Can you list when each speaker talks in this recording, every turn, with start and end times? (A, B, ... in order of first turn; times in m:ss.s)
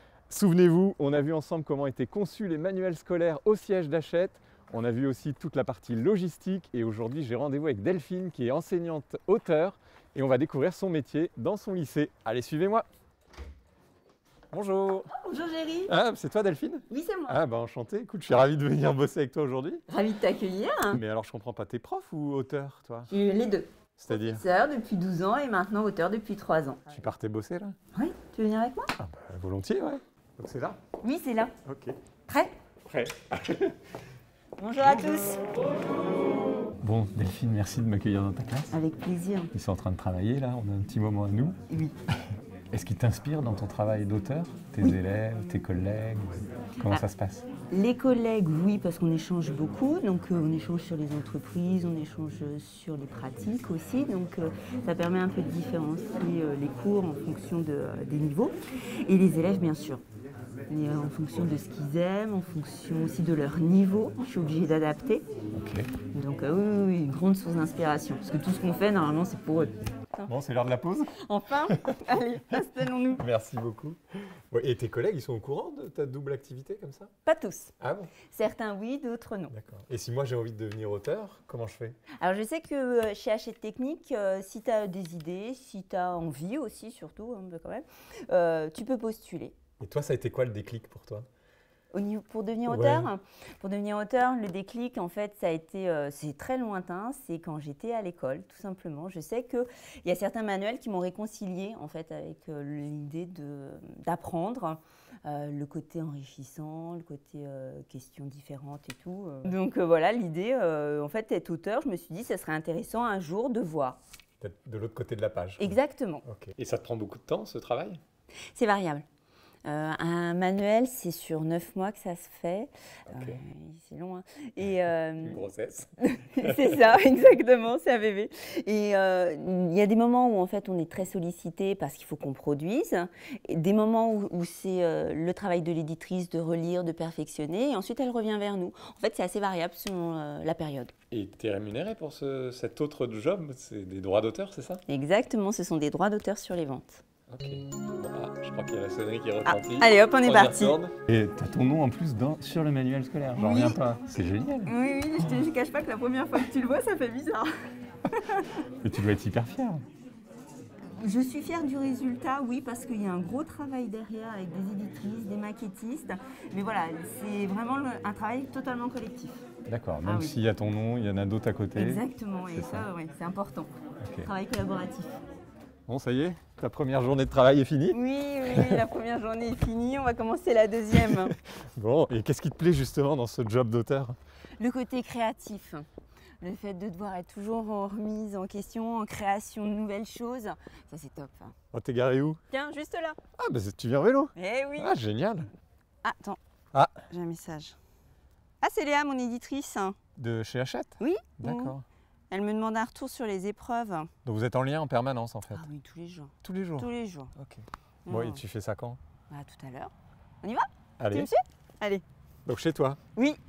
0:00.3-0:12.9 A
0:14.5-0:15.1 A
0:15.1-0:15.9 B
0:15.9-0:19.8 A
0:16.9-0:17.4 B
0:19.9-0:21.0 B
0:20.9-0:23.1 A
0:23.1-0:26.9 B
0:24.0-0:24.4 A
0:26.9-0:27.8 A
0:27.9-0:28.9 B
0:29.0-0:30.8 A
0:31.0-0:31.6 B
0:31.6-0:32.0 A
0:32.3-0:32.6 B
0:32.9-0:33.8 A
0:34.6-0:35.4 B
0:34.8-0:35.2 A
0:36.8-0:38.8 A
0:38.7-0:39.5 B
0:39.5-0:41.6 A
0:41.7-0:42.0 B
0:42.7-0:47.5 A
0:47.7-0:58.6 B
0:59.1-1:00.0 B
1:00.7-1:05.2 B
1:05.5-1:05.9 A
1:06.1-1:10.3 B
1:10.3-1:11.2 A
1:11.2-1:13.2 B
1:11.7-1:12.0 A
1:13.2-1:14.0 A
1:14.5-1:17.1 A
1:17.2-1:19.5 B
1:17.8-1:18.1 A
1:19.5-1:22.0 A
1:22.2-1:29.6 B
1:29.8-1:31.3 A
1:31.9-1:54.0 B
1:32.7-1:33.1 A
1:54.4-1:58.0 A
1:55.6-1:56.2 B
1:58.5-1:59.0 B
1:59.6-2:05.4 B
2:03.1-2:03.4 A
2:05.2-2:06.9 A
2:06.0-2:20.9 B
2:21.1-2:24.8 A
2:24.9-2:27.0 B
2:27.3-2:35.4 A
2:29.4-2:30.8 B
2:33.4-2:33.8 B
2:34.6-2:37.5 B
2:38.8-2:39.8 A
2:41.0-2:49.4 B
2:49.7-2:52.9 A
2:50.0-2:50.4 B
2:51.8-2:53.7 B
2:54.0-2:54.3 A
2:54.2-2:55.2 B
2:55.9-2:58.8 A
2:57.9-3:01.3 B
3:00.9-3:04.2 A
3:04.6-3:05.9 B
3:06.4-3:11.6 B
3:11.7-3:12.4 A
3:12.5-3:13.2 B
3:13.4-3:15.5 A
3:14.4-3:15.0 B
3:16.0-3:16.4 B
3:17.1-3:17.8 B
3:18.6-3:20.0 B
3:20.2-3:21.8 A
3:21.0-3:21.8 B
3:22.3-3:24.1 B
3:24.2-3:25.6 A
3:25.5-3:27.3 B
3:26.4-3:29.0 A
3:28.1-3:28.4 B
3:29.3-3:32.0 B
3:31.0-3:31.3 A
3:32.5-3:33.0 A
3:33.2-3:33.4 B